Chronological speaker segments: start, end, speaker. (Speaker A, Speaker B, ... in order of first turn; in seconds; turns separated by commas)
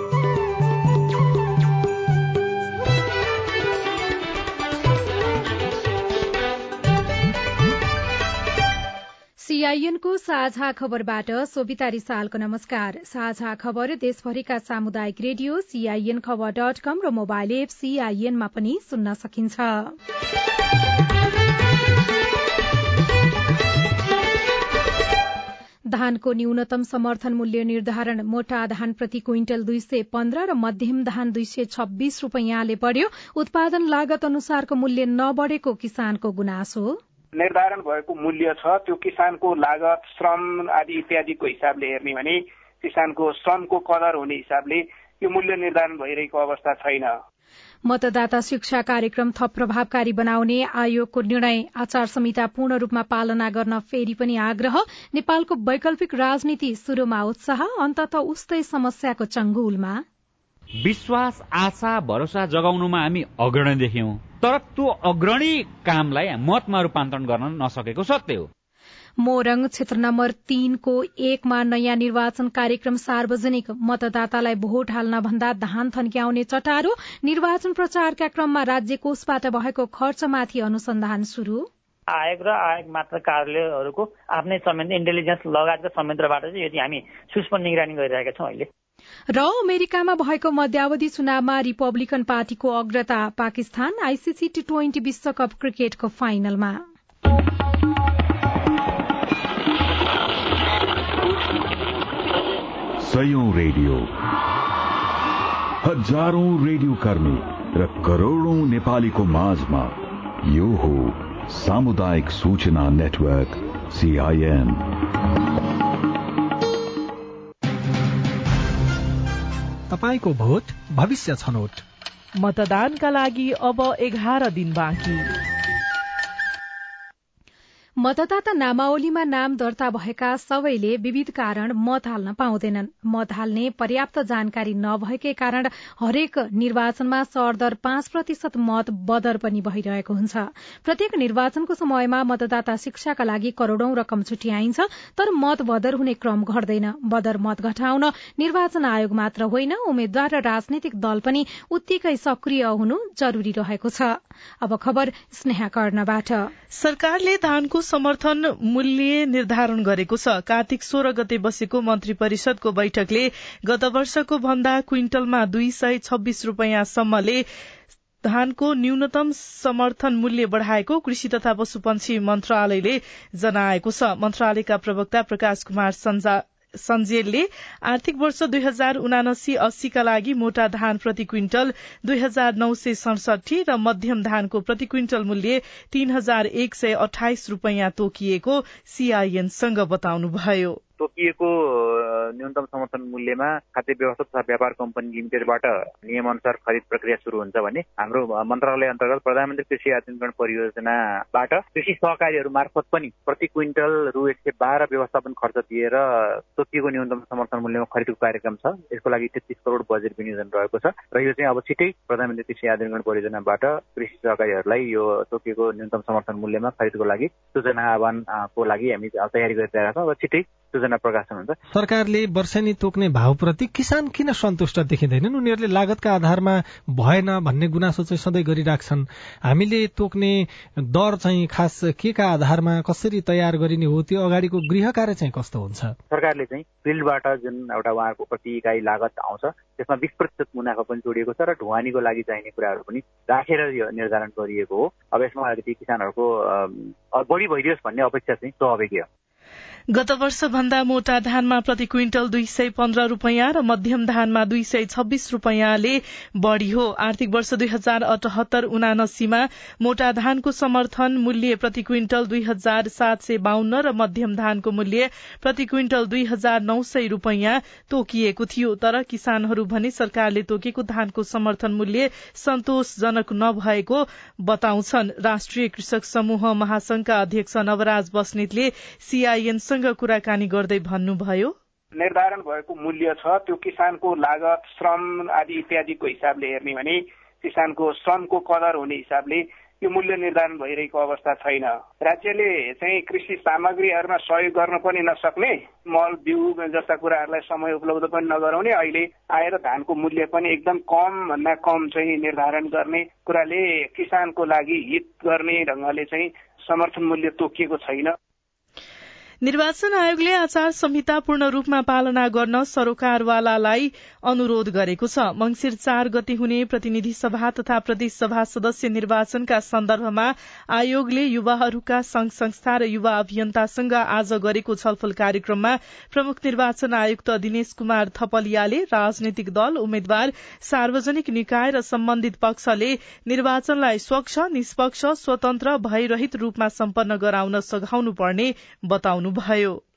Speaker A: 9.4-19.9, Speaker A: 25.9-37.0, Speaker B: 37.4-47.1, Speaker A: 47.9-60.0, Speaker C: 60.8-68.5, Speaker A: 69.2-81.7, Speaker D: 82.1-88.7, Speaker A: 89.3-96.9, Speaker E: 103.0-104.1, Speaker E: 105.8-114.9, Speaker F: 119.9-121.8, Speaker G: 122.4-125.3, Speaker A: 128.0-156.5, Speaker G: 156.7-167.4, Speaker G: 168.2-190.8, Speaker H: 191.0-221.6, Speaker F: 221.7-236.0, Speaker H: 236.1-249.1, Speaker G: 249.9-281.5, Speaker B: 281.9-308.1, Speaker G: 309.4-339.8